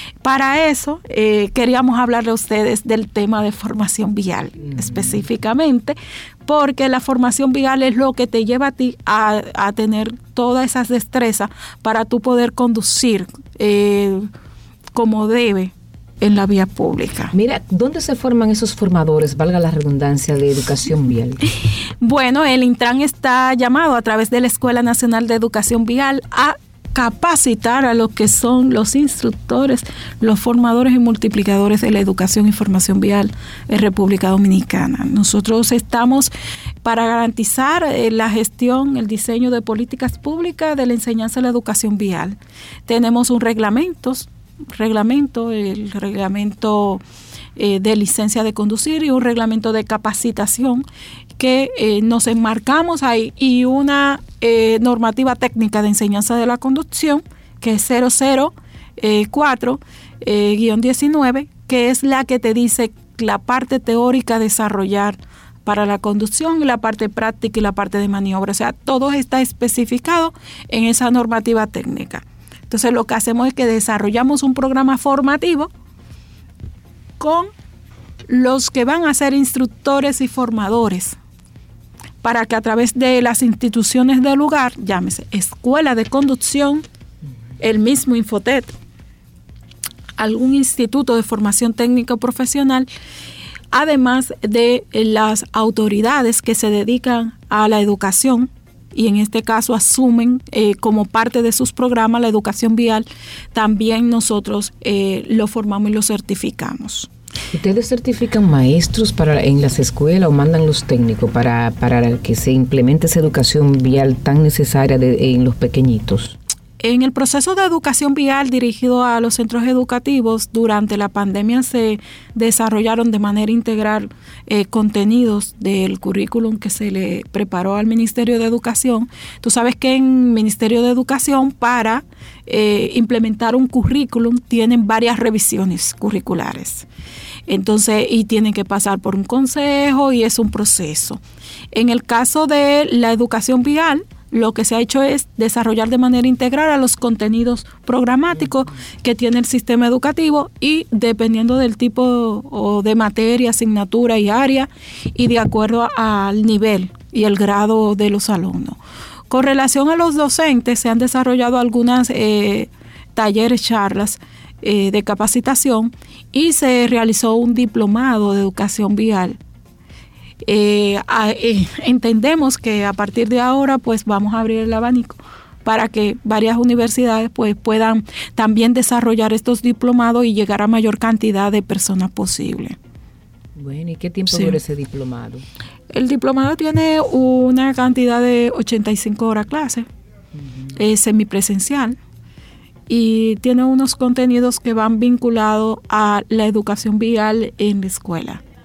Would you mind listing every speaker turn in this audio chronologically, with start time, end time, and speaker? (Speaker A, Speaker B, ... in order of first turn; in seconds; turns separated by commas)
Speaker A: 0.2-14.3, Speaker B: 4.6-5.2, Speaker A: 14.9-17.3, Speaker B: 17.3-21.4, Speaker A: 22.0-36.3, Speaker A: 36.8-47.0, Speaker A: 47.6-50.9, Speaker A: 51.4-75.7, Speaker A: 77.2-77.5, Speaker A: 78.3-81.2, Speaker A: 82.2-86.8, Speaker A: 87.6-88.7, Speaker A: 90.2-92.9, Speaker A: 93.7-107.1, Speaker B: 107.5-116.4, Speaker A: 116.8-136.9, Speaker A: 137.5-141.2, Speaker A: 141.7-169.4, Speaker A: 170.4-182.8, Speaker B: 183.6-185.4, Speaker A: 184.3-184.6, Speaker A: 185.9-189.9, Speaker B: 190.4-190.7, Speaker A: 190.8-192.0, Speaker A: 192.9-198.4